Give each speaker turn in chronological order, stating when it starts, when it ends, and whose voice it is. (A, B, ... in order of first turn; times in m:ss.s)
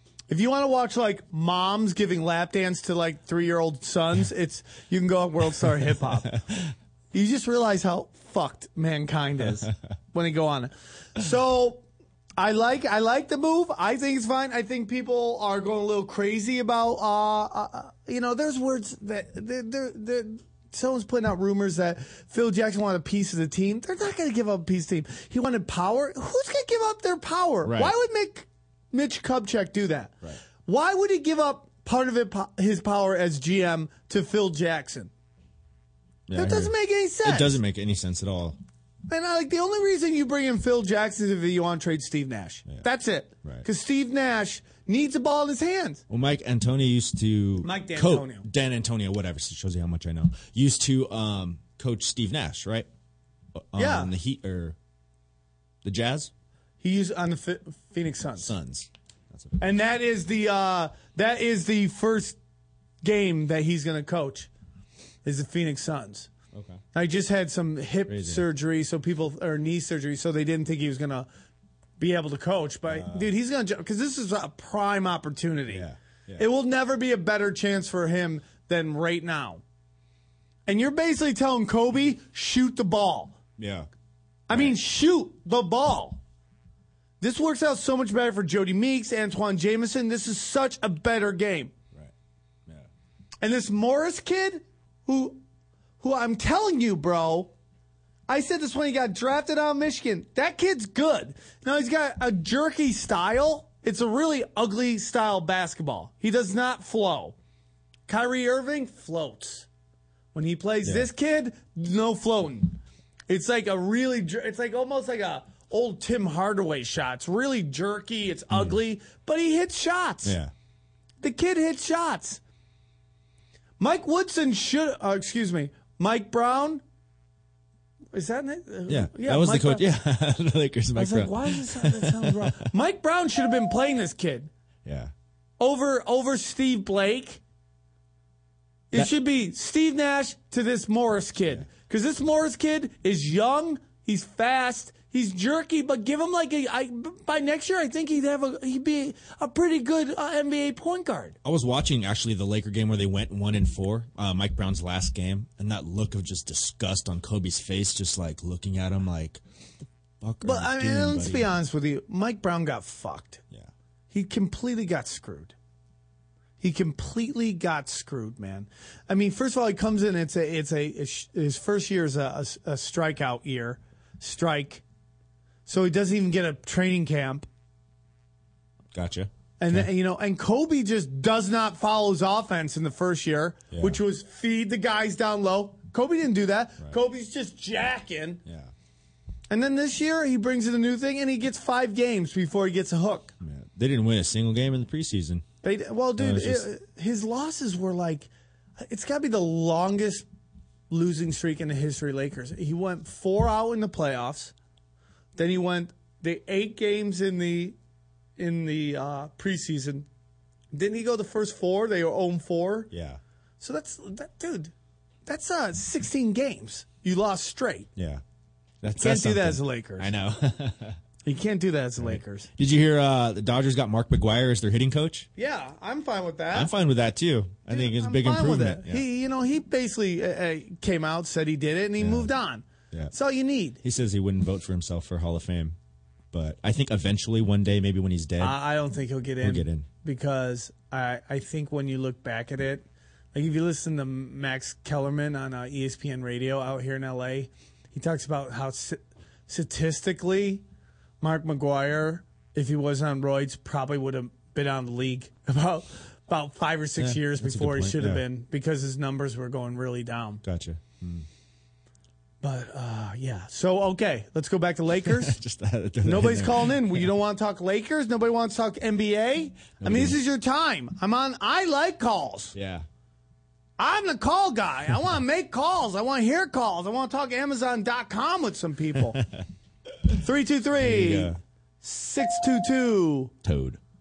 0:00.3-0:06.3 A
0:07.1-0:11.8 A
0:09.4-0:09.7 B
0:12.4-0:35.1 A
0:27.6-0:27.9 B
0:36.3-0:38.6 B
0:36.3-0:37.6 A
0:39.1-0:46.0 A
0:46.1-0:52.9 B
0:47.6-0:48.4 A
0:53.7-0:54.7 B
0:53.8-0:54.1 A
0:55.8-0:56.3 B
0:56.8-0:58.5 A
0:58.4-0:59.6 B
0:59.6-1:02.4 A
1:03.0-1:04.5 A
1:05.2-1:06.3 A
1:06.5-1:06.8 B
1:06.9-1:11.3 A
1:08.1-1:08.4 B
1:12.0-1:15.8 A
1:12.9-1:13.3 B
1:15.7-1:16.4 B
1:16.4-1:19.6 A
1:20.7-1:23.4 A
1:23.6-1:23.9 B
1:24.5-1:26.2 A
1:24.5-1:24.8 B
1:27.2-1:31.7 A
1:33.4-1:35.4 A
1:36.0-1:37.5 A
1:38.3-1:47.4 A
1:48.1-1:49.7 A
1:50.3-2:00.4 A
1:58.5-1:58.8 B
2:00.2-2:00.5 B
2:01.2-2:02.4 A
2:03.8-2:06.8 A
2:08.1-2:09.8 A
2:08.9-2:12.6 B
2:11.0-2:14.5 A
2:14.8-2:15.1 B
2:15.6-2:17.4 A
2:18.9-2:31.4 A
2:31.4-2:39.4 B
2:40.2-2:41.5 B
2:40.4-2:43.4 A
2:44.1-2:45.5 A
2:46.6-2:54.8 A
2:55.6-2:57.5 A
2:58.9-2:59.9 B
2:59.6-3:08.4 A
3:03.7-3:04.0 B
3:08.4-3:08.7 B
3:09.5-3:13.3 A
3:13.4-3:15.4 B
3:15.6-3:20.2 A
3:16.2-3:16.6 B
3:20.9-3:24.5 A
3:25.4-3:27.8 A
3:28.4-3:30.0 A
3:30.7-3:32.9 A
3:32.9-3:33.2 B
3:33.6-3:34.7 A
3:35.2-3:37.9 A
3:38.0-3:38.2 B
3:38.8-3:41.0 B
3:39.0-3:40.1 A
3:41.2-3:42.5 A
3:42.0-3:45.3 B
3:45.4-3:46.7 A
3:46.5-3:49.0 B
3:47.7-3:53.8 A
3:52.0-3:52.3 B
3:53.8-3:55.7 B
3:56.3-3:58.6 B
3:58.4-4:10.6 A
3:59.4-3:59.8 B
4:11.2-4:20.4 A
4:17.0-4:18.2 B
4:20.4-4:21.2 B
4:22.4-4:25.4 A
4:25.0-4:27.0 B
4:26.0-4:32.5 A
4:29.8-4:30.2 B
4:32.5-4:32.8 B
4:33.8-4:39.2 A
4:40.2-4:43.3 A
4:40.8-4:41.4 B
4:43.4-4:43.8 B